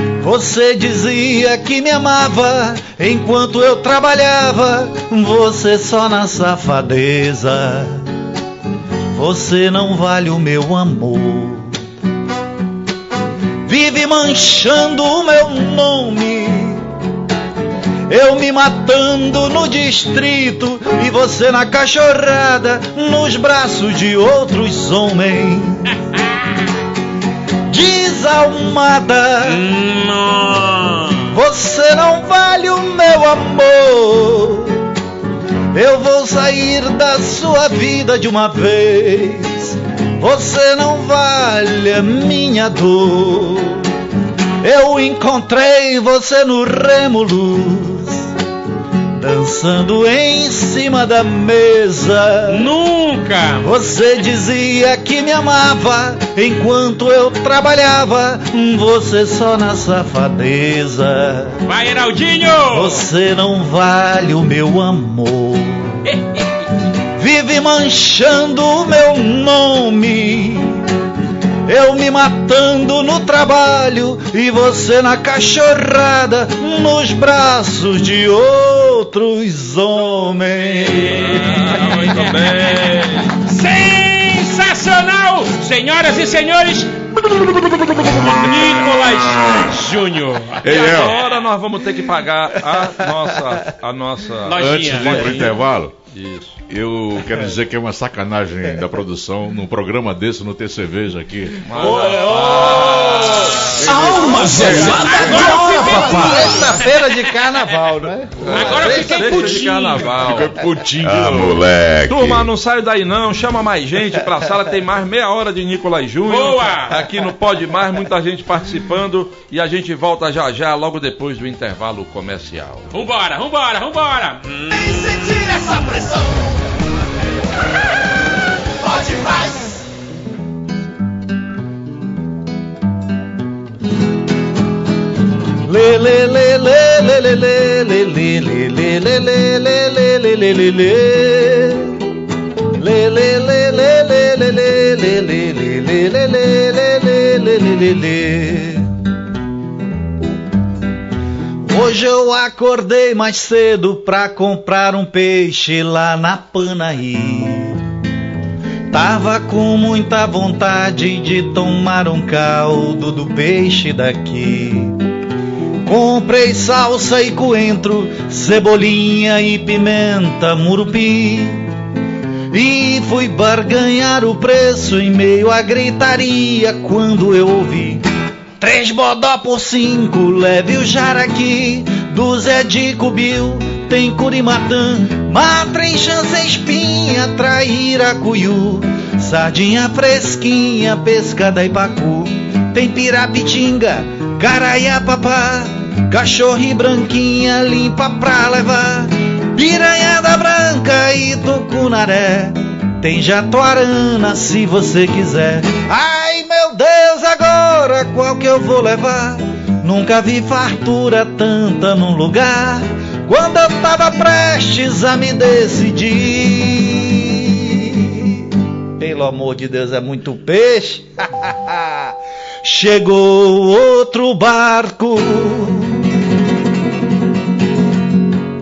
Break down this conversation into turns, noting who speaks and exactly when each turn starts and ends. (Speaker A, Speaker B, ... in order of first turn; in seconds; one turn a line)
Speaker A: 0.2-8.0
Speaker A: 9.1-11.8
Speaker A: 13.6-16.9
Speaker A: 18.1-25.9
Speaker A: 27.7-29.6
Speaker B: 29.4-31.3
Speaker A: 31.3-34.9
Speaker A: 35.7-43.9
Speaker A: 44.6-48.3
Speaker A: 49.1-52.7
Speaker B: 52.5-53.7
Speaker A: 53.6-61.6
Speaker B: 61.6-63.0
Speaker A: 62.7-66.0
Speaker B: 66.0-66.5
Speaker A: 67.1-70.9
Speaker A: 71.7-81.3
Speaker B: 80.7-91.0
Speaker C: 81.1-83.3
Speaker D: 90.6-91.2
Speaker C: 90.6-95.6
Speaker A: 92.7-93.0
Speaker B: 94.4-95.5
Speaker D: 94.5-95.9
Speaker C: 96.1-96.6
Speaker D: 96.7-102.0
Speaker C: 101.6-104.1
Speaker A: 101.8-109.7
Speaker B: 101.9-103.7
Speaker D: 103.6-105.7
Speaker E: 103.8-106.7
Speaker B: 104.8-106.8
Speaker C: 105.8-106.8
Speaker C: 108.4-110.5
Speaker B: 108.5-110.1
Speaker D: 110.1-112.5
Speaker C: 111.1-122.9
Speaker B: 116.3-117.0
Speaker B: 122.9-125.4
Speaker E: 124.7-126.5
Speaker E: 128.8-129.8
Speaker A: 135.6-142.0
Speaker A: 142.7-148.9
Speaker A: 151.6-157.8
Speaker A: 158.9-165.0
Speaker A: 165.8-171.7
Speaker A: 172.5-178.0
Speaker A: 178.6-218.4
Speaker A: 219.0-226.1